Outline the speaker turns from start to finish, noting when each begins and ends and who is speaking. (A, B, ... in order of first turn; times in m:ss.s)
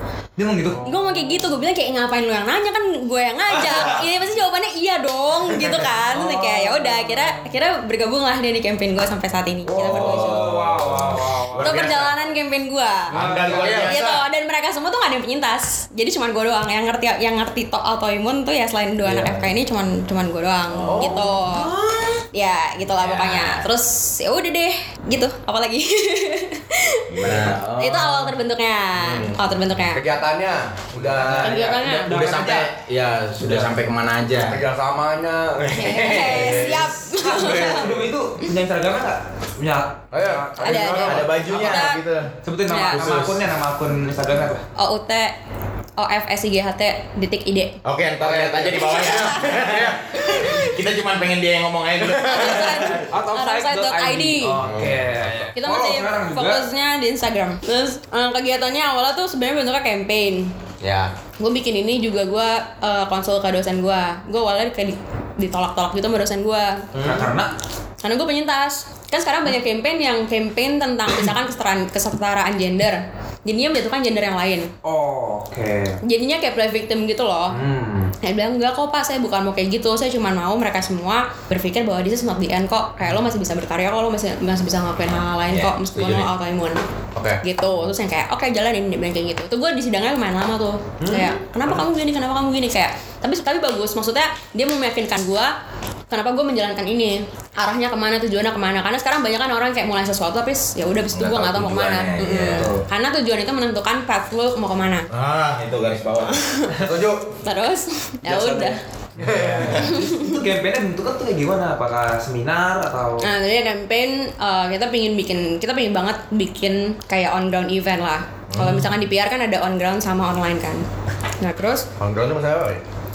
0:00.4-0:01.0 A
0:00.8-0:10.6 B
0:06.1-0:07.4 A
0:09.7-0:11.9 A
0:09.8-0:12.1 C
0:11.6-0:13.2 B
0:13.1-0:14.2 C
0:13.1-0:13.9 A
0:13.4-0:14.1 D
0:13.7-0:21.7 B
0:19.1-0:19.4 A
0:20.7-0:22.2 C
0:20.8-0:21.4 D
0:22.3-0:30.1 B
0:22.8-0:23.7 C
0:27.1-0:28.4 C
0:29.0-0:29.4 C
0:29.9-0:31.6 D
0:31.0-0:32.7 A
0:31.0-0:31.4 C
0:31.4-0:32.1 B
0:32.0-0:34.6 C
0:33.4-0:33.7 A
0:34.4-0:36.8 D
0:35.7-0:37.9 B
0:35.8-0:36.8 C
0:37.1-0:41.0 A
0:40.1-0:42.3 D
0:40.6-0:42.0 B
0:40.8-0:42.3 C
0:42.4-0:44.6 A
0:42.7-0:43.0 B
0:42.9-0:43.4 C
0:44.8-0:45.3 B
0:46.0-0:47.8 B
0:47.8-0:53.1 C
0:48.2-0:50.4 D
0:48.8-0:50.8 B
0:52.0-0:52.6 D
0:52.2-0:54.6 B
0:53.1-0:56.7 A
0:54.6-0:55.4 C
0:54.6-0:55.1 D
0:55.6-1:00.5 B
1:00.8-1:01.1 D
1:01.4-1:07.3 B
1:07.0-1:07.5 A
1:08.0-1:14.7 B
1:14.8-1:16.0 A
1:16.0-1:17.6 B
1:17.5-1:18.1 A
1:18.2-1:26.9 B
1:25.5-1:26.3 C
1:27.2-1:27.4 D
1:27.4-1:35.5 B
1:31.0-1:31.7 A
1:36.1-1:45.1 B
1:41.1-1:42.8 C
1:42.5-1:42.8 A
1:45.1-1:46.5 C
1:46.4-1:46.8 B
1:46.8-1:47.4 D
1:47.4-1:48.8 B
1:48.2-1:53.3 A
1:49.2-1:49.8 D
1:49.8-1:50.4 B
1:53.2-2:00.8 B
1:58.5-1:58.9 C
2:01.4-2:01.9 B
2:02.0-2:02.8 D